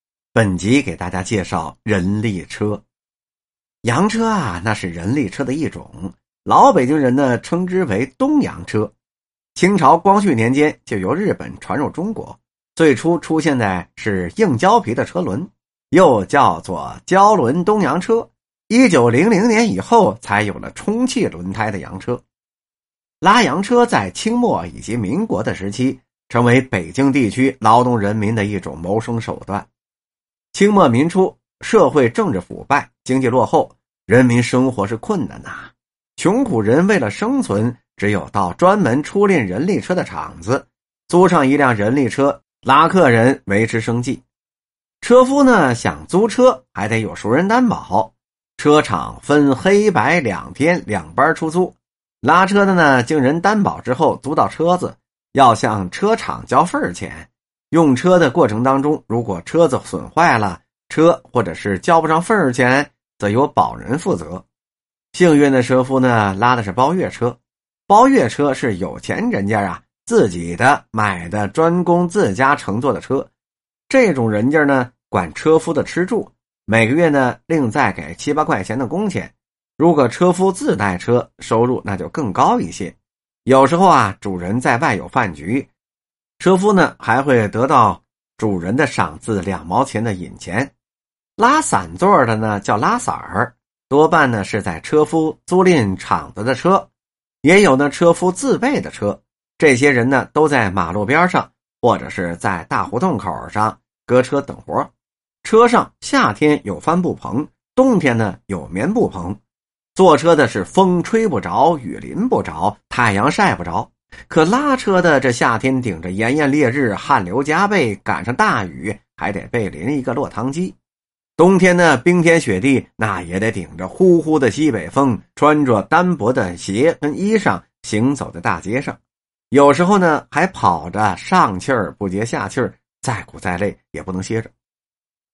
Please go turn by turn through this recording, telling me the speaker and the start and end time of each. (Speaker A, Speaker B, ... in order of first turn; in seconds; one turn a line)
Speaker A: 0.3-2.8
Speaker A: 3.8-8.9
Speaker A: 9.6-22.2
Speaker A: 23.2-29.7
Speaker A: 30.5-44.2
Speaker A: 45.0-64.5
Speaker A: 65.1-73.3
Speaker A: 73.9-85.7
Speaker A: 86.4-90.7
Speaker A: 91.4-96.9
Speaker A: 97.4-104.9
Speaker A: 105.4-109.4
Speaker A: 110.0-120.8
Speaker A: 121.4-129.0
Speaker A: 129.5-134.5